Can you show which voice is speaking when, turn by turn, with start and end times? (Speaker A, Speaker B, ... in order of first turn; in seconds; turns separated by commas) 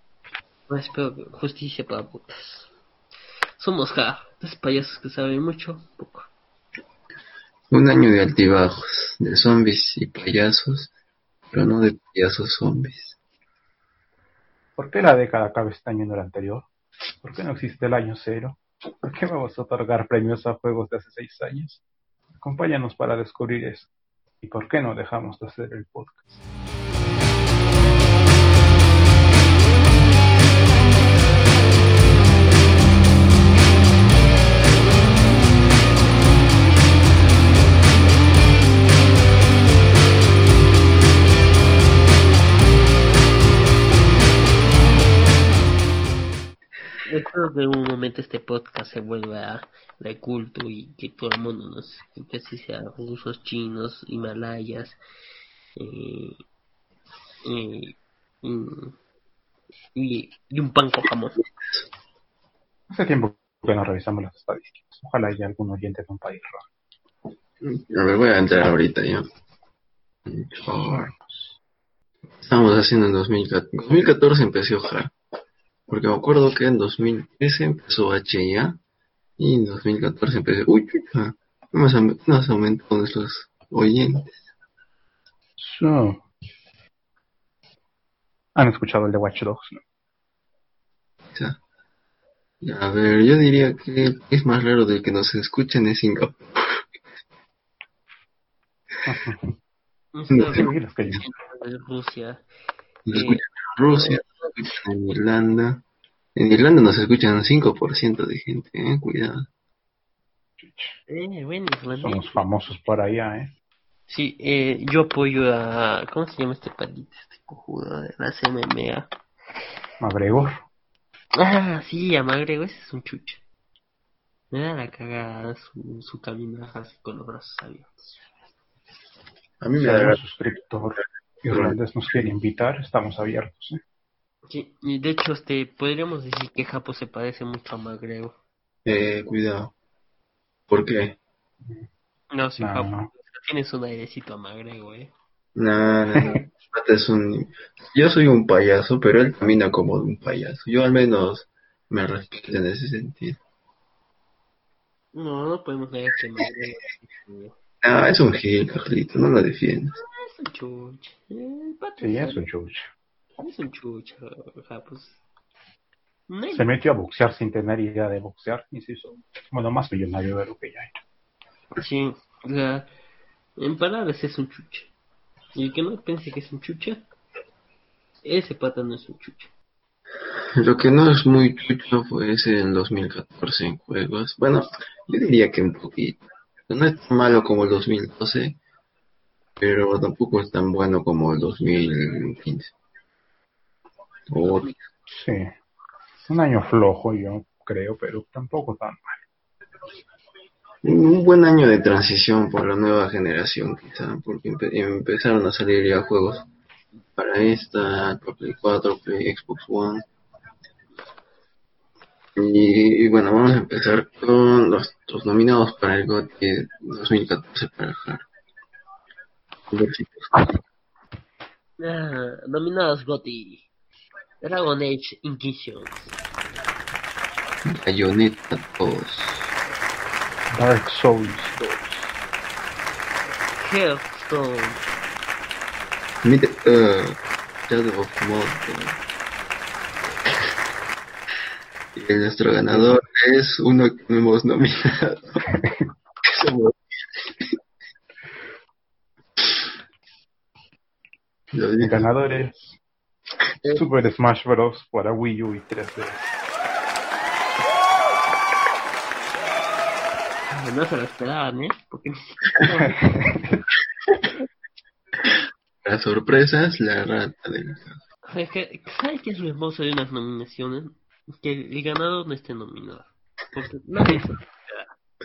Speaker A: 0.7-2.7, Speaker A: 3.6-6.3, Speaker B: 7.7-10.9, Speaker B: 11.5-13.2, Speaker C: 14.8-16.7, Speaker C: 17.2-21.8, Speaker C: 22.4-23.9, Speaker C: 24.4-26.2, Speaker A: 47.0-55.0, Speaker A: 55.8-56.4, Speaker A: 57.4-59.0, Speaker A: 60.0-61.4, Speaker C: 62.9-66.6, Speaker B: 67.6-69.3, Speaker B: 70.3-71.5, Speaker B: 72.4-75.1, Speaker B: 75.9-78.8, Speaker B: 79.4-84.3, Speaker C: 85.6-86.2, Speaker C: 88.5-89.8, Speaker B: 91.3-91.6, Speaker B: 92.6-96.9, Speaker C: 99.0-99.6, Speaker A: 100.1-102.4, Speaker B: 100.3-100.7, Speaker C: 100.5-101.2, Speaker B: 103.1-105.8, Speaker A: 103.1-104.8, Speaker B: 106.3-109.5, Speaker C: 110.6-111.0, Speaker A: 111.1-112.4, Speaker C: 112.0-113.5, Speaker A: 114.1-119.1, Speaker C: 120.0-120.7, Speaker A: 121.3-123.4, Speaker A: 124.5-128.2, Speaker B: 129.6-130.2, Speaker C: 129.8-133.8, Speaker B: 131.5-131.8, Speaker A: 134.5-138.3, Speaker B: 138.8-139.7, Speaker B: 140.7-141.2, Speaker A: 142.3-145.1, Speaker C: 142.6-143.1, Speaker B: 145.6-153.4, Speaker A: 155.1-157.5, Speaker B: 157.8-160.0, Speaker A: 160.0-162.4, Speaker C: 162.0-162.9, Speaker A: 163.4-165.2, Speaker A: 166.3-166.7, Speaker C: 166.5-171.0, Speaker A: 171.8-172.9, Speaker A: 173.6-174.9, Speaker A: 175.5-177.0, Speaker A: 178.2-179.5, Speaker B: 180.6-188.6, Speaker B: 189.6-192.7, Speaker B: 194.3-194.7, Speaker C: 195.1-195.5, Speaker C: 196.3-199.2, Speaker B: 200.8-206.5, Speaker B: 207.2-210.0, Speaker B: 212.3-218.2, Speaker B: 219.7-220.5, Speaker A: 221.8-223.7, Speaker A: 224.4-226.1, Speaker B: 227.7-229.5, Speaker C: 230.5-232.1, Speaker A: 233.5-234.8, Speaker B: 236.2-239.0, Speaker B: 241.9-245.5, Speaker C: 242.7-243.0, Speaker C: 245.6-245.9, Speaker B: 246.2-247.6, Speaker B: 251.5-252.1, Speaker C: 251.8-252.8, Speaker C: 253.7-256.3, Speaker A: 260.5-263.0, Speaker C: 263.0-263.6, Speaker B: 265.8-268.0, Speaker A: 268.3-274.9